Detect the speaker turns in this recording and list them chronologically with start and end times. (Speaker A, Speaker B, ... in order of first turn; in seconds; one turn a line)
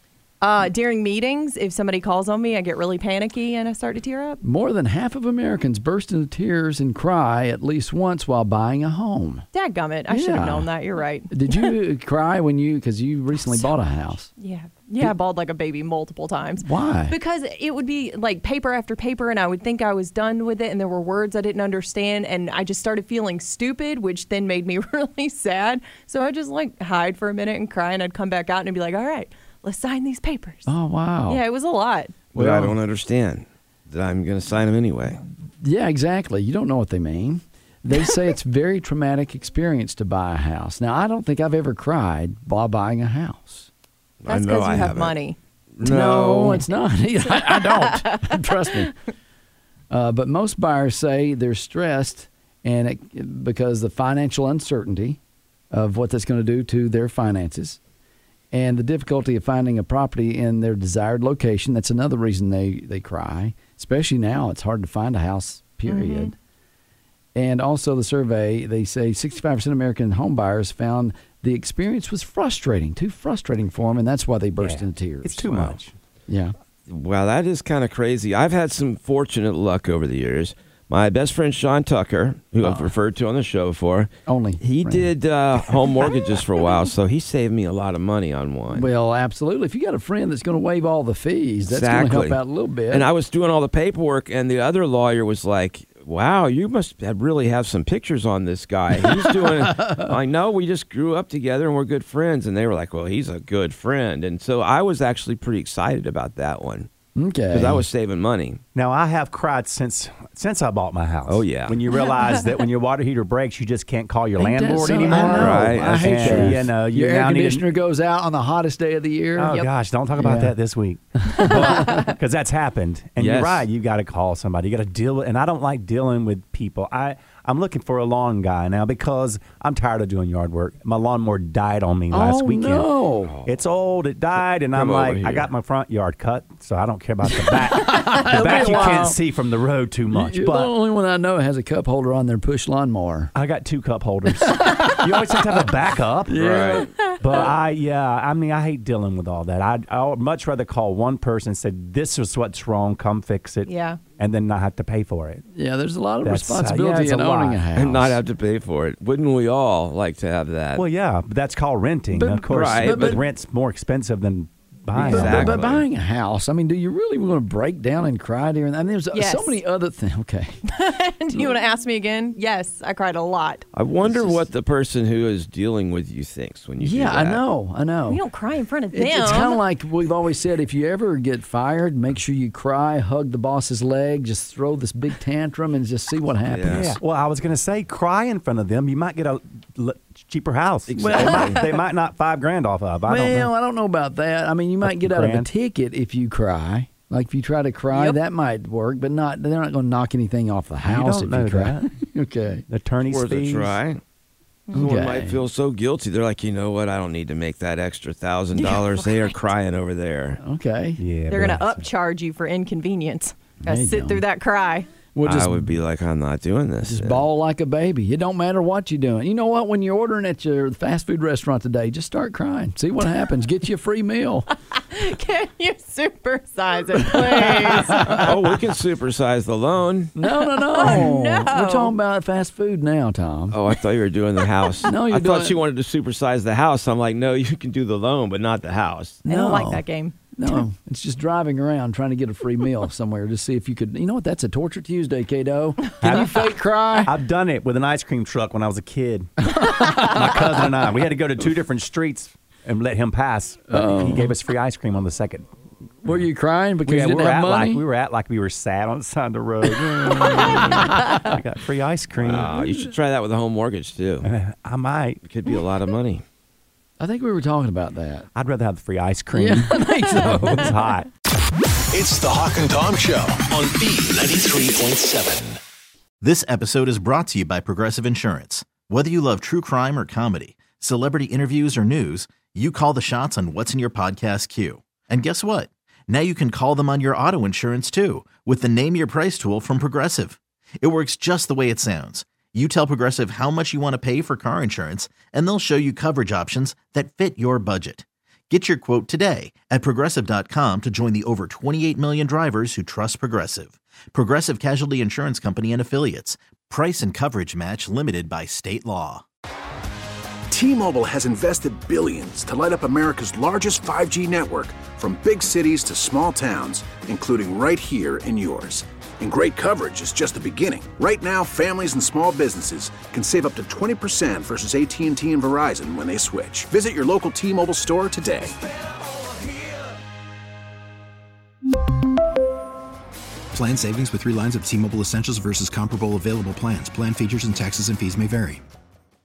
Speaker A: 0.4-4.4
Speaker B: 4.4-9.4
Speaker A: 9.5-11.8
Speaker B: 10.1-10.7
Speaker B: 11.3-14.3
Speaker A: 13.4-13.7
Speaker A: 14.4-30.7
Speaker B: 16.6-17.1
Speaker B: 30.6-31.4
Speaker A: 31.3-32.2
Speaker B: 32.3-32.8
Speaker C: 32.3-35.2
Speaker B: 35.6-43.7
Speaker C: 44.2-45.1
Speaker A: 44.3-45.4
Speaker C: 45.8-46.6
Speaker B: 45.8-48.9
Speaker A: 47.4-48.9
Speaker B: 49.9-55.2
Speaker B: 55.7-57.8
Speaker B: 58.5-66.3
Speaker A: 65.8-66.3
Speaker B: 67.3-75.7
Speaker D: 74.6-75.9
Speaker B: 76.3-76.5
Speaker C: 76.9-88.9
Speaker B: 82.6-82.9
Speaker B: 84.3-85.1
Speaker B: 88.7-93.1
Speaker C: 91.7-106.9
Speaker B: 99.0-100.1
Speaker B: 107.1-107.8
Speaker C: 107.5-108.6
Speaker D: 108.7-117.7
Speaker C: 111.3-111.8
Speaker B: 114.4-119.6
Speaker C: 115.0-116.6
Speaker D: 119.4-132.9
Speaker B: 120.2-120.5
Speaker B: 121.2-121.9
Speaker A: 121.4-122.1
Speaker C: 123.2-123.6
Speaker B: 132.1-133.3
Speaker C: 133.3-133.5
Speaker D: 133.4-140.7
Speaker C: 134.7-135.5
Speaker B: 137.4-139.2
Speaker B: 140.1-143.3
Speaker D: 143.3-146.6
Speaker B: 146.3-146.9
Speaker C: 146.4-146.9
Speaker A: 147.0-147.5
Speaker D: 147.2-155.4
Speaker A: 153.7-154.0
Speaker B: 155.5-158.2
Speaker D: 156.2-157.6
Speaker C: 157.7-160.8
Speaker D: 160.7-165.8
Speaker B: 162.1-163.2
Speaker C: 162.5-163.2
Speaker C: 164.9-165.8
Speaker B: 165.0-170.6
Speaker A: 169.1-169.6
Speaker A: 170.7-173.7
Speaker C: 173.7-177.4
Speaker B: 174.1-174.4
Speaker B: 176.8-178.2
Speaker A: 178.1-179.6
Speaker B: 178.9-186.9
Speaker C: 186.4-187.0
Speaker D: 186.7-193.5
Speaker C: 190.9-191.6
Speaker B: 193.1-202.6
Speaker D: 194.8-195.5
Speaker A: 197.9-198.2
Speaker D: 200.8-201.9
Speaker D: 202.7-203.8
Speaker C: 203.1-204.0
Speaker C: 204.7-210.4
Speaker B: 204.7-205.4
Speaker A: 208.6-209.3
Speaker B: 210.4-211.0
Speaker D: 211.0-211.9
Speaker A: 211.3-214.9
Speaker B: 213.6-214.2
Speaker B: 215.1-215.7
Speaker C: 215.2-217.3
Speaker B: 216.8-224.5
Speaker A: 224.7-228.1
Speaker C: 227.8-230.2
Speaker B: 227.9-228.2
Speaker B: 230.2-233.6
Speaker A: 230.4-231.9
Speaker C: 233.5-239.2
Speaker B: 234.8-235.6
Speaker A: 239.2-240.2
Speaker B: 239.2-247.1
Speaker D: 246.0-246.4
Speaker D: 247.0-255.5
Speaker B: 249.5-250.1
Speaker B: 253.7-254.3
Speaker B: 256.0-257.8
Speaker D: 256.8-262.6
Speaker C: 260.3-260.8
Speaker C: 262.2-264.3
Speaker D: 264.2-265.2
Speaker C: 265.2-266.2
Speaker B: 267.0-268.3
Speaker D: 268.3-271.1
Speaker B: 269.3-270.7
Speaker E: 271.9-275.6
Speaker F: 276.2-309.2
Speaker G: 310.5-328.6
Speaker H: 333.5-338.6